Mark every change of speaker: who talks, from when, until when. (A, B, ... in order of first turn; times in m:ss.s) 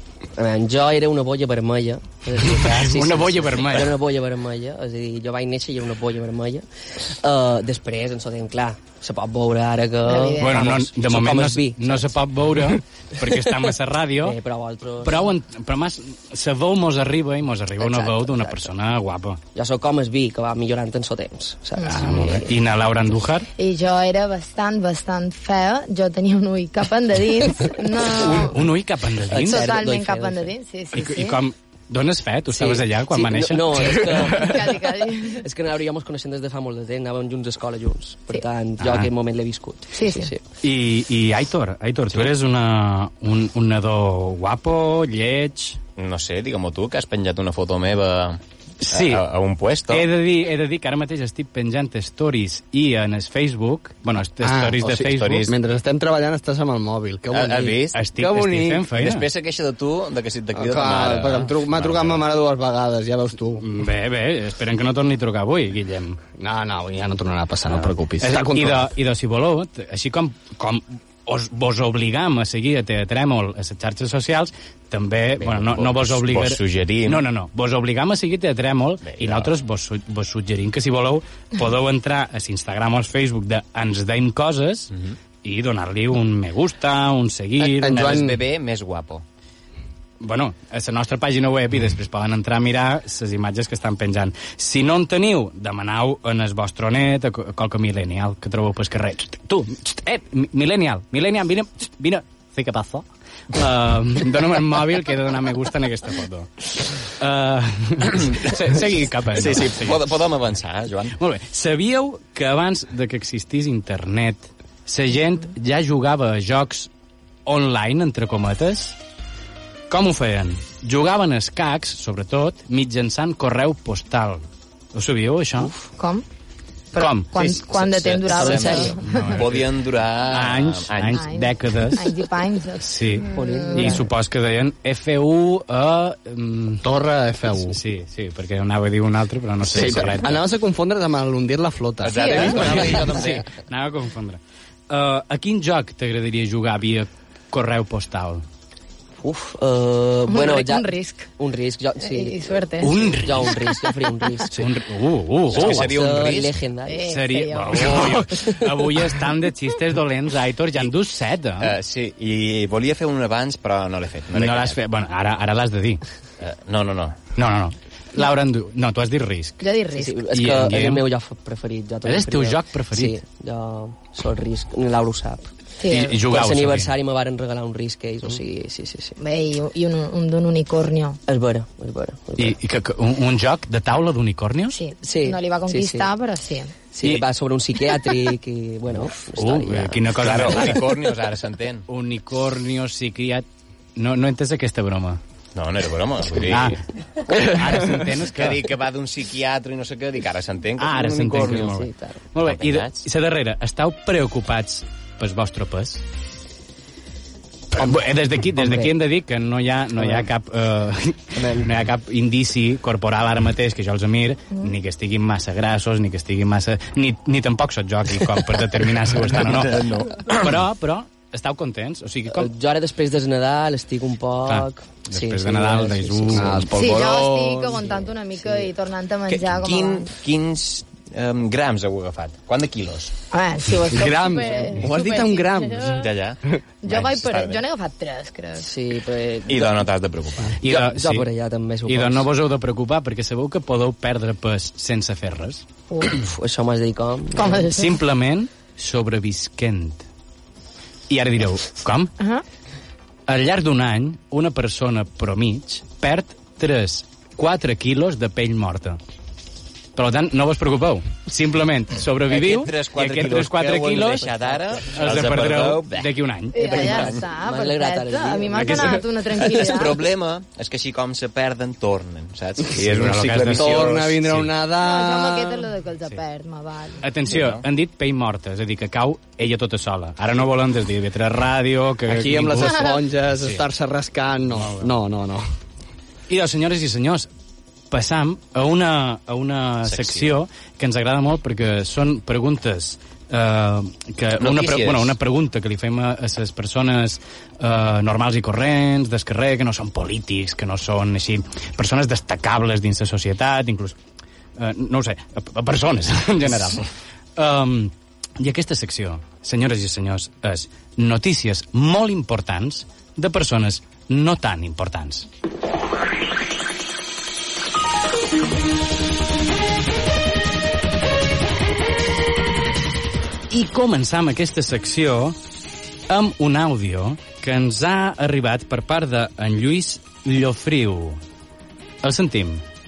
0:00.3-0:12.2 A
0:02.6-0:04.0 B
0:10.0-0:10.8 C
0:10.4-0:14.4 B
0:14.2-0:15.3 A
0:15.0-0:19.4 B
0:17.8-0:18.7 A
0:19.5-0:22.5 A
0:21.8-0:22.4 C
0:21.8-0:23.5 B
0:23.6-0:28.6 C
0:28.2-0:29.7 B
0:29.3-0:30.5 A
0:29.4-0:31.4 C
0:30.9-0:34.1 B
0:32.5-0:40.4 A
0:34.2-0:34.5 D
0:34.4-0:35.4 C
0:38.8-0:39.1 B
0:39.9-0:40.3 C
0:40.6-0:45.8 B
0:46.0-0:50.1 E
0:48.8-0:49.2 B
0:49.9-0:55.5 B
0:54.4-0:58.9 D
0:54.8-0:55.5 E
0:57.3-0:58.0 E
0:57.9-0:59.3 B
0:59.0-1:02.2 E
1:00.5-1:03.7 D
1:03.6-1:06.2 B
1:06.4-1:08.9 D
1:08.2-1:28.3 B
1:15.4-1:17.2 E
1:19.0-1:19.5 E
1:27.6-1:29.2 E
1:27.8-1:28.4 D
1:30.2-1:50.0 B
1:48.4-1:48.6 E
1:49.3-1:51.2 E
1:51.2-1:56.9 B
1:57.4-1:59.0 B
1:59.9-2:05.7 B
2:05.8-2:06.2 C
2:06.9-2:09.4 C
2:07.0-2:07.3 B
2:07.3-2:11.3 E
2:08.3-2:09.0 A
2:08.9-2:09.7 B
2:10.2-2:12.1 B
2:11.1-2:14.0 C
2:12.8-2:16.8 B
2:13.2-2:14.1 A
2:16.8-2:17.8 D
2:17.6-2:20.4 B
2:19.7-2:23.0 D
2:19.7-2:20.0 E
2:22.0-2:23.5 E
2:22.1-2:23.0 C
2:22.6-2:28.4 B
2:29.2-2:34.6 A
2:30.3-2:31.3 C
2:32.0-2:33.0 C
2:32.8-2:33.5 B
2:34.5-2:35.9 B
2:35.5-2:36.6 E
2:35.5-2:37.3 A
2:36.8-2:38.1 C
2:37.1-2:41.7 B
2:41.6-2:44.8 E
2:44.3-2:46.0 B
2:46.4-2:47.2 E
2:47.4-2:49.6 B
2:49.6-2:50.2 C
2:50.0-2:55.5 A
2:50.3-2:51.0 B
2:52.0-2:53.2 B
2:55.8-2:56.2 C
2:55.8-2:56.9 B
2:56.1-2:59.2 A
2:59.2-3:01.2 C
3:01.3-3:02.6 A
3:02.4-3:04.7 B
3:04.7-3:06.7 C
3:05.0-3:06.1 A
3:06.9-3:10.1 A
3:09.3-3:10.8 B
3:10.2-3:11.8 E
3:11.9-3:15.2 B
3:15.5-3:16.8 E
3:16.4-3:16.8 B
3:17.3-3:18.6 B
3:18.3-3:21.8 E
3:20.8-3:26.0 B
3:21.4-3:22.2 A
3:22.4-3:23.0 E
3:27.7-3:42.5 B
3:28.6-3:28.9 A
3:30.0-3:30.3 A
3:31.4-3:31.7 A
3:39.3-3:40.4 E
3:42.3-3:46.7 A
3:44.5-3:46.6 B
3:46.4-3:47.8 D
3:46.8-3:50.1 C
3:47.8-3:48.7 A
3:49.3-3:53.1 E
3:53.3-3:56.0 C
3:53.9-3:56.6 D
3:55.9-3:57.6 E
3:56.8-3:58.7 C
3:58.6-3:59.9 A
3:59.5-4:00.6 E
4:00.6-4:01.3 B
4:00.6-4:02.3 A
4:01.8-4:05.6 B
4:05.9-4:06.2 C
4:06.0-4:07.7 A
4:07.4-4:08.0 C
4:07.7-4:10.0 B
4:11.1-4:12.1 B
4:12.2-4:12.4 C
4:13.3-4:19.0 B
4:19.9-4:24.3 B
4:22.3-4:26.1 E
4:24.3-4:24.8 A
4:24.9-4:26.8 B
4:26.5-4:30.0 C
4:26.6-4:29.0 A
4:26.6-4:27.2 E
4:29.5-4:34.2 E
4:32.7-4:34.5 B
4:33.5-4:35.7 D
4:34.8-4:37.0 C
4:37.0-4:43.6 B
4:37.3-4:37.6 E
4:42.1-4:45.4 D
4:44.5-4:44.9 B
4:46.3-4:47.3 B
4:47.9-5:04.0 B
4:49.8-4:50.4 E
4:54.4-4:55.1 E
5:04.6-5:15.3 B
5:23.5-5:25.4 B
5:26.1-5:31.2 B
5:32.0-5:32.6 B